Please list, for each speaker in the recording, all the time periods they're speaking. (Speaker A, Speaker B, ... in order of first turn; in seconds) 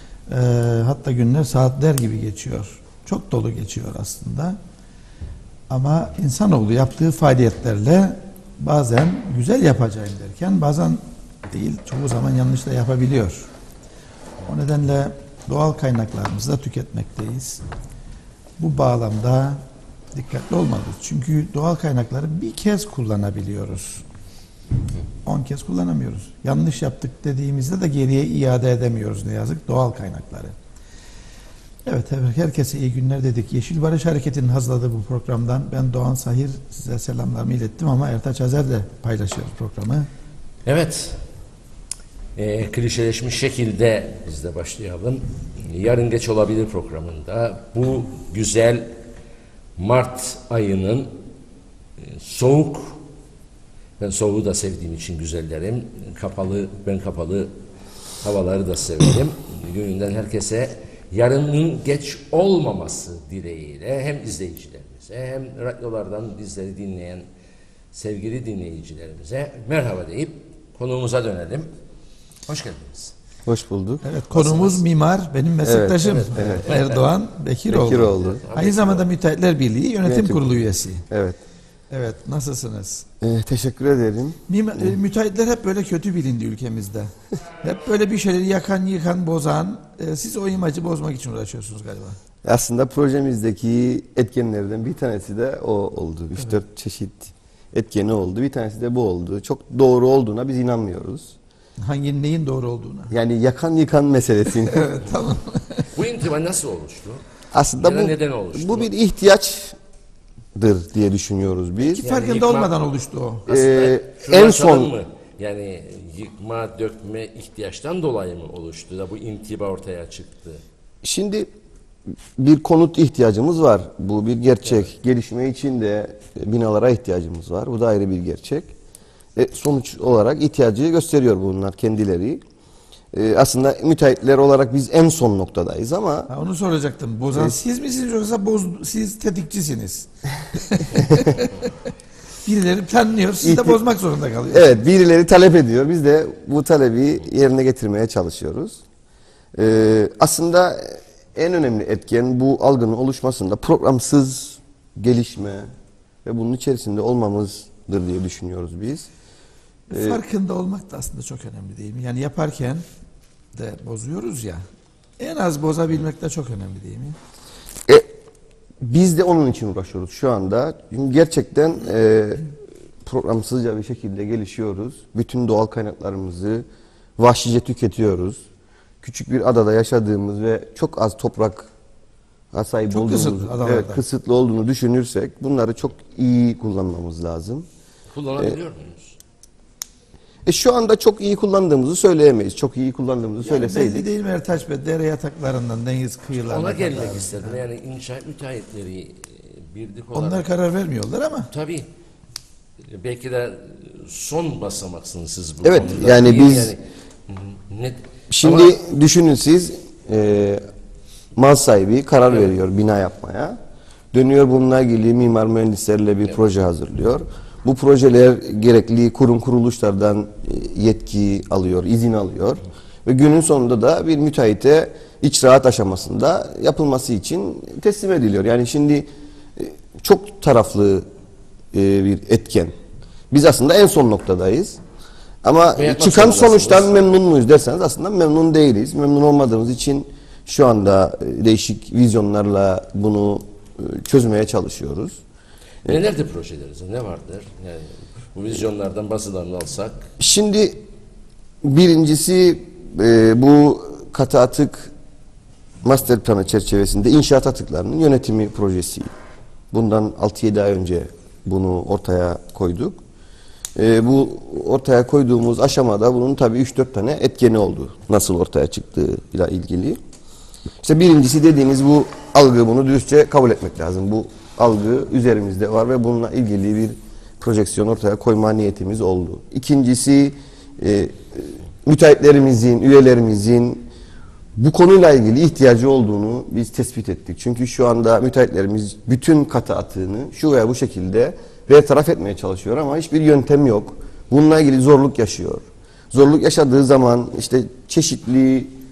Speaker A: 0.3-4.6, 5.7-13.5, 14.5-17.6, 18.6-19.6, 20.1-24.0, 25.2-30.5, 31.9-40.1, 74.0-81.1, 81.9-83.1, 84.5-92.2, 101.8-103.2, 104.6-105.9, 112.0-113.5, 136.3-141.8, 142.4-144.8, 159.9-162.8, 163.5-164.7, 165.2-167.2, 182.9-184.0, 193.4-197.6, 200.1-201.5
Speaker B: 40.6-41.2, 42.4-49.0, 49.8-51.1, 52.0-53.0, 54.0-57.5, 58.2-67.3, 67.9-71.7, 72.5-73.1, 74.3-74.8, 76.0-77.1, 78.2-79.1, 105.9-107.2, 107.8-108.9, 112.0-112.7, 113.5-120.6, 188.1-189.2, 196.3-200.5, 201.5-201.9, 202.8-208.7, 235.8-237.0, 245.8-250.1
Speaker C: 73.5-74.0, 75.6-76.7, 77.7-78.4, 80.0-80.5, 81.1-81.4, 83.2-85.0, 92.4-101.4, 103.1-104.9, 107.5-109.8, 110.5-112.1, 113.5-114.9, 121.0-121.5, 122.4-128.7, 129.4-132.4, 133.1-136.3, 137.3-137.6, 140.9-141.3, 143.4-143.8, 144.5-148.8, 149.6-155.7, 156.2-159.1, 159.9-160.2, 168.8-172.5, 173.1-176.7, 177.2-178.4, 179.0-181.7, 182.5-187.7, 190.5-194.1, 205.6-206.7, 208.3-210.6, 211.4-213.6, 214.1-231.1, 231.7-232.7, 233.3-234.8, 235.4-245.2, 250.2-250.8, 251.6-254.9, 255.8-259.1, 259.7-263.0, 263.8-270.0, 270.8-283.9, 284.6-298.7